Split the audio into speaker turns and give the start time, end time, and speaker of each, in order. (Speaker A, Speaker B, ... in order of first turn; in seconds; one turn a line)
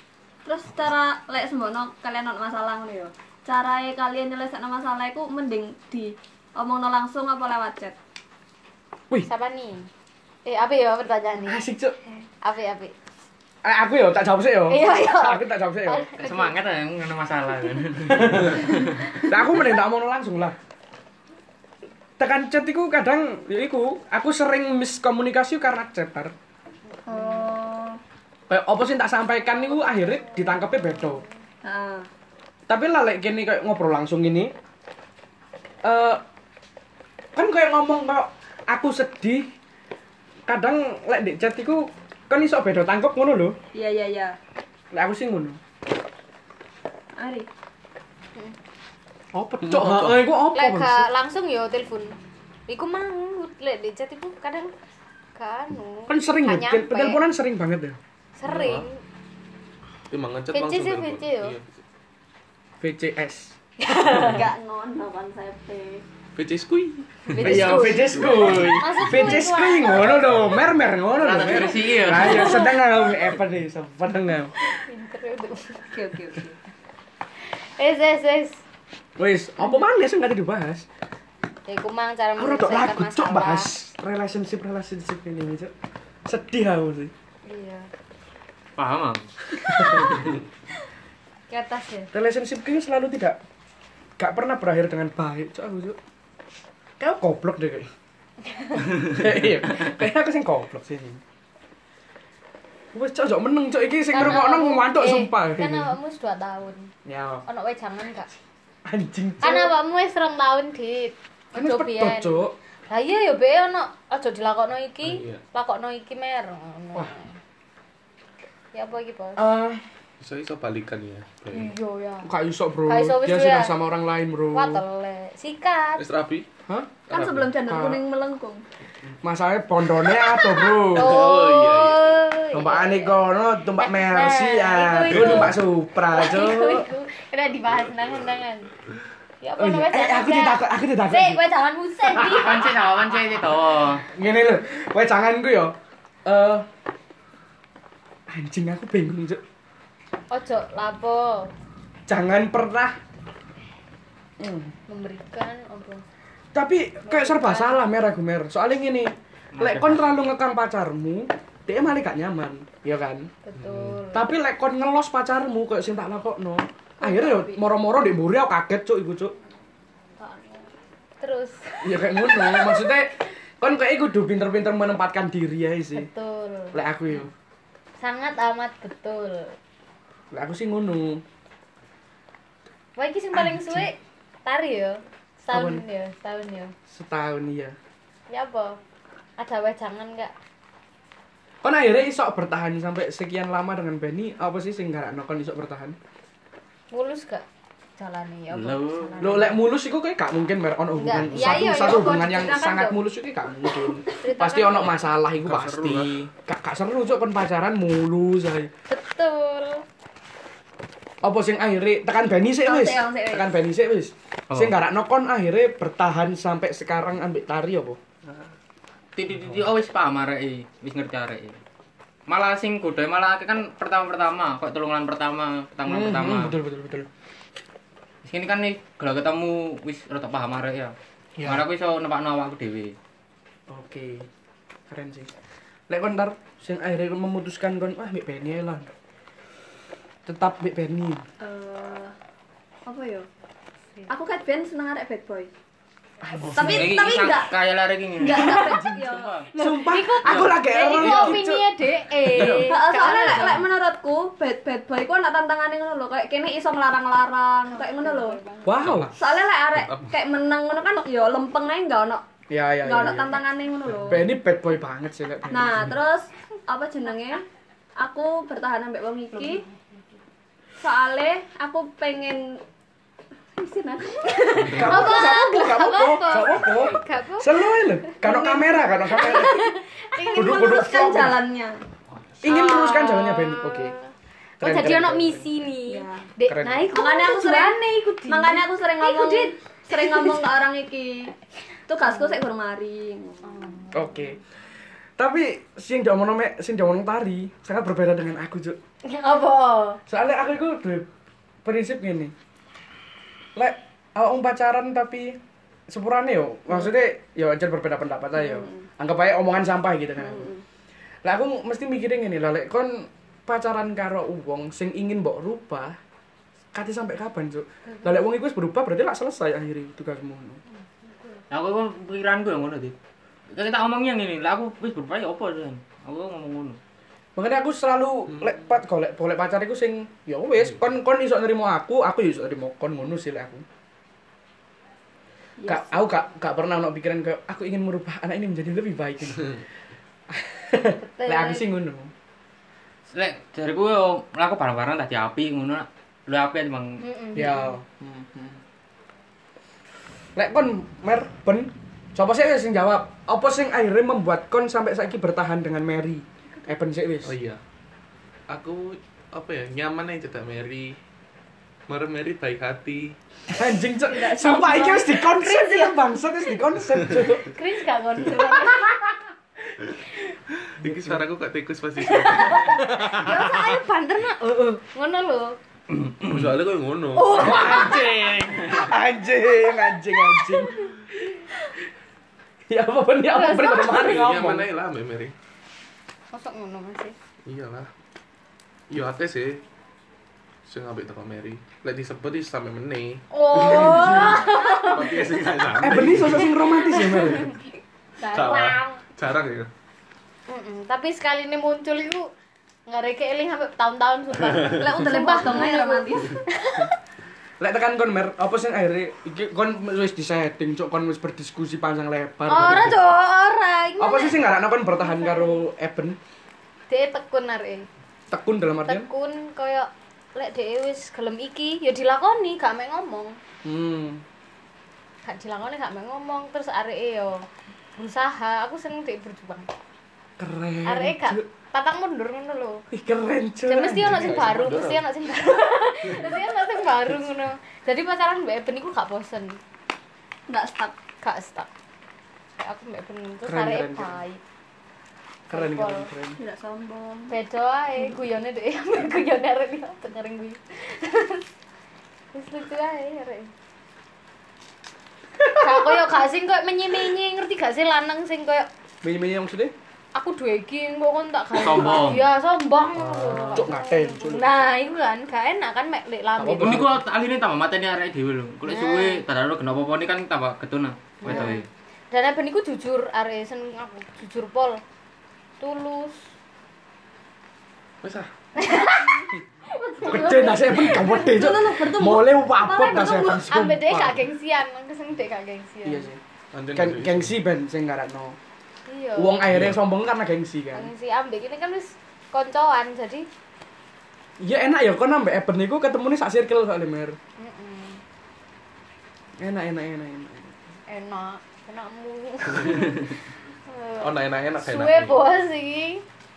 Speaker A: 0.4-8.0
Speaker B: 9.2-9.9
Speaker B: 10.4-11.6
Speaker C: 11.4-12.0
Speaker B: 12.4-12.9
Speaker C: 13.6-16.1
Speaker B: 14.7-16.5
Speaker D: 16.2-19.2
Speaker C: 19.2-20.5
Speaker C: 22.2-26.3
Speaker A: 27.1-28.0
Speaker B: 27.1-27.5
Speaker C: 28.5-31.2
Speaker B: 29.6-31.2
Speaker A: 31.6-32.1
Speaker C: 32.7-34.5
Speaker C: 35.8-36.2
Speaker C: 37.3-39.5
Speaker C: 40.5-43.6
Speaker A: 43.7-44.4
Speaker C: 44.9-45.6
Speaker A: 47.1-47.5
Speaker C: 49.3-51.1
Speaker E: 49.6-50.2
Speaker B: 50.5-54.7
Speaker B: 55.4-57.2
Speaker C: 56.1-58.0
Speaker B: 58.4-59.0
Speaker E: 58.5-58.9
Speaker E: 60.1-61.6
Speaker B: 60.5-61.5
Speaker C: 62.8-63.5
Speaker B: 63.8-64.4
Speaker A: 64.1-66.0
Speaker E: 66.3-69.3
Speaker B: 67.3-70.2
Speaker C: 67.4-74.5
Speaker E: 70.1-70.7
Speaker D: 71.2-72.7
Speaker B: 72.2-72.8
Speaker B: 74.7-75.9
Speaker A: 75.9-76.6
Speaker B: 77.4-78.6
Speaker C: 79.2-80.8
Speaker B: 81.7-83.7
Speaker C: 82.4-85.7
Speaker C: 86.2-87.1
Speaker B: 87.4-87.9
Speaker D: 88.8-89.3
Speaker B: 91.5-92.1
Speaker C: 92.1-93.4
Speaker C: 94.2-96.0
Speaker C: 97.0-97.9
Speaker B: 98.5-98.9
Speaker C: 99.0-101.2
Speaker C: 102.9-105.9
Speaker B: 104.1-106.9
Speaker C: 107.0-107.4
Speaker B: 107.5-108.3
Speaker C: 108.8-109.7
Speaker B: 109.4-112.4
Speaker C: 111.5-112.5
Speaker B: 112.9-117.3
Speaker E: 115.0-115.4
Speaker B: 118.7-119.4
Speaker C: 119.3-119.8
Speaker E: 120.2-121.7
Speaker B: 121.5-122.3
Speaker C: 122.2-124.8
Speaker B: 122.9-123.7
Speaker B: 124.5-126.0
Speaker E: 126.0-126.5
Speaker C: 126.7-127.0
Speaker E: 127.1-127.6
Speaker A: 127.1-128.6
Speaker C: 127.6-128.0
Speaker C: 129.2-131.2
Speaker B: 130.2-133.2
Speaker E: 130.9-132.2
Speaker C: 132.5-136.9
Speaker B: 133.8-138.7
Speaker E: 135.1-135.6
Speaker B: 139.4-142.7
Speaker C: 139.6-141.4
Speaker C: 142.0-142.6
Speaker D: 142.2-144.1
Speaker C: 144.1-146.7
Speaker C: 148.3-149.4
Speaker B: 150.3-151.5
Speaker C: 152.1-153.0
Speaker C: 154.4-154.7
Speaker B: 154.9-156.0
Speaker C: 156.5-163.3
Speaker B: 157.0-157.8
Speaker D: 159.5-160.0
Speaker B: 163.4-164.3
Speaker E: 163.6-164.0
Speaker C: 164.1-169.3
Speaker A: 167.0-167.5
Speaker B: 167.1-167.3
Speaker B: 170.2-170.7
Speaker B: 171.2-172.9
Speaker C: 171.8-176.1
Speaker B: 175.9-176.8
Speaker C: 176.7-177.3
Speaker B: 178.0-179.6
Speaker C: 180.3-181.2
Speaker B: 183.0-186.7
Speaker C: 183.3-183.8
Speaker C: 185.5-185.8
Speaker C: 186.9-187.8
Speaker B: 188.3-188.8
Speaker B: 189.4-190.3
Speaker C: 191.6-195.9
Speaker B: 196.9-197.4
Speaker B: 198.0-199.6
Speaker D: 198.5-199.3
Speaker C: 199.2-208.7
Speaker B: 201.0-203.0
Speaker B: 204.2-205.1
Speaker E: 205.4-206.2
Speaker B: 208.9-209.8
Speaker C: 211.2-218.0
Speaker A: 212.6-213.6
Speaker D: 219.2-221.6
Speaker D: 222.3-226.5
Speaker C: 225.8-227.1
Speaker D: 228.2-232.9
Speaker C: 231.4-231.6
Speaker C: 233.7-234.2
Speaker C: 234.9-235.3
Speaker C: 235.9-238.9
Speaker C: 240.2-241.2
Speaker A: 241.4-242.1
Speaker A: 242.8-243.3
Speaker A: 244.1-245.5
Speaker C: 246.2-246.8
Speaker A: 246.5-247.5
Speaker D: 246.5-249.5
Speaker A: 248.2-250.0
Speaker C: 248.4-248.9
Speaker C: 249.6-251.7
Speaker B: 249.6-253.7
Speaker D: 250.2-250.6
Speaker A: 250.7-251.3
Speaker C: 252.2-252.8
Speaker A: 252.4-258.4
Speaker B: 257.7-258.7
Speaker C: 258.6-259.1
Speaker E: 258.8-260.1
Speaker A: 259.1-262.2
Speaker C: 262.5-263.4
Speaker A: 262.8-264.3
Speaker C: 264.0-265.9
Speaker A: 265.5-267.4
Speaker A: 268.0-269.6
Speaker B: 269.3-269.7
Speaker A: 270.8-272.6
Speaker A: 273.6-275.4
Speaker C: 274.6-279.6
Speaker B: 274.8-277.8
Speaker A: 278.2-281.8
Speaker B: 279.1-280.9
Speaker C: 280.3-281.4
Speaker C: 282.4-283.9
Speaker B: 282.4-284.1
Speaker C: 284.6-285.5
Speaker B: 284.6-290.5
Speaker A: 285.9-286.3
Speaker C: 286.4-286.9
Speaker A: 286.9-291.3
Speaker A: 291.9-293.8
Speaker B: 292.0-292.4
Speaker B: 293.4-294.4
Speaker C: 293.9-294.4
Speaker C: 295.2-298.8
Speaker B: 299.0-300.0
Speaker C: 300.1-301.1
Speaker C: 301.6-302.3
Speaker C: 303.6-305.4
Speaker C: 305.9-310.5
Speaker A: 308.4-308.9
Speaker A: 310.2-310.6
Speaker C: 311.2-315.9
Speaker C: 316.7-320.6
Speaker D: 321.5-322.9
Speaker D: 323.5-326.8
Speaker C: 327.4-333.6
Speaker A: 335.6-336.0
Speaker C: 335.6-339.6
Speaker C: 340.3-342.1
Speaker B: 341.0-341.6
Speaker D: 343.1-347.0
Speaker B: 347.0-347.7
Speaker C: 347.3-348.6
Speaker C: 350.4-357.3
Speaker E: 357.2-357.6
Speaker E: 358.5-361.0
Speaker E: 361.9-363.1
Speaker C: 363.5-367.5
Speaker A: 364.1-365.2
Speaker B: 364.4-366.2
Speaker B: 367.3-369.1
Speaker A: 368.2-368.8
Speaker E: 370.6-372.9
Speaker C: 370.8-371.2
Speaker B: 372.0-375.6
Speaker C: 372.8-373.6
Speaker E: 376.2-377.5
Speaker B: 377.1-378.1
Speaker A: 377.2-377.9
Speaker C: 377.3-381.0
Speaker C: 382.7-384.7
Speaker B: 383.3-384.1
Speaker E: 383.8-385.3
Speaker B: 386.3-387.1
Speaker E: 387.4-387.9
Speaker E: 388.9-389.6
Speaker E: 390.6-396.6
Speaker B: 393.3-395.2
Speaker C: 393.6-394.5
Speaker C: 395.8-397.5
Speaker B: 396.4-397.6
Speaker B: 398.2-399.0
Speaker E: 398.3-399.7
Speaker B: 400.5-402.3
Speaker B: 402.9-406.9
Speaker A: 404.6-406.4
Speaker C: 407.6-412.9
Speaker B: 412.5-414.5
Speaker C: 414.0-416.2
Speaker B: 415.0-415.6
Speaker B: 416.9-417.9
Speaker C: 418.3-419.1
Speaker B: 418.9-423.4
Speaker C: 423.6-424.2
Speaker B: 425.2-427.4
Speaker B: 428.0-429.7
Speaker C: 430.4-431.4
Speaker B: 430.9-432.8
Speaker C: 432.9-434.3
Speaker B: 433.7-439.6
Speaker E: 434.0-435.0
Speaker E: 436.1-436.4
Speaker A: 440.5-440.9
Speaker B: 441.2-441.7
Speaker B: 442.6-444.4
Speaker C: 443.4-444.2
Speaker C: 445.5-446.4
Speaker B: 445.5-446.1
Speaker A: 446.4-447.3
Speaker B: 447.3-451.4
Speaker B: 452.3-453.5
Speaker B: 455.5-458.7
Speaker C: 459.0-459.7
Speaker B: 460.1-466.8
Speaker D: 461.5-462.3
Speaker E: 463.0-463.6
Speaker C: 463.5-464.5
Speaker C: 466.4-467.0
Speaker D: 466.6-471.6
Speaker B: 468.7-469.2
Speaker B: 471.2-474.8
Speaker B: 475.6-476.3
Speaker E: 478.0-478.3
Speaker B: 478.6-481.2
Speaker C: 480.0-484.2
Speaker A: 480.9-483.4
Speaker B: 482.9-486.1
Speaker C: 485.8-486.2
Speaker E: 486.5-487.3
Speaker C: 486.7-488.4
Speaker B: 488.9-489.4
Speaker C: 489.1-490.9
Speaker E: 489.5-489.8
Speaker B: 490.7-493.3
Speaker C: 494.4-497.2
Speaker B: 497.4-498.0
Speaker C: 499.4-500.5
Speaker B: 500.9-503.2
Speaker E: 502.6-502.8
Speaker B: 503.7-506.0
Speaker E: 504.0-505.3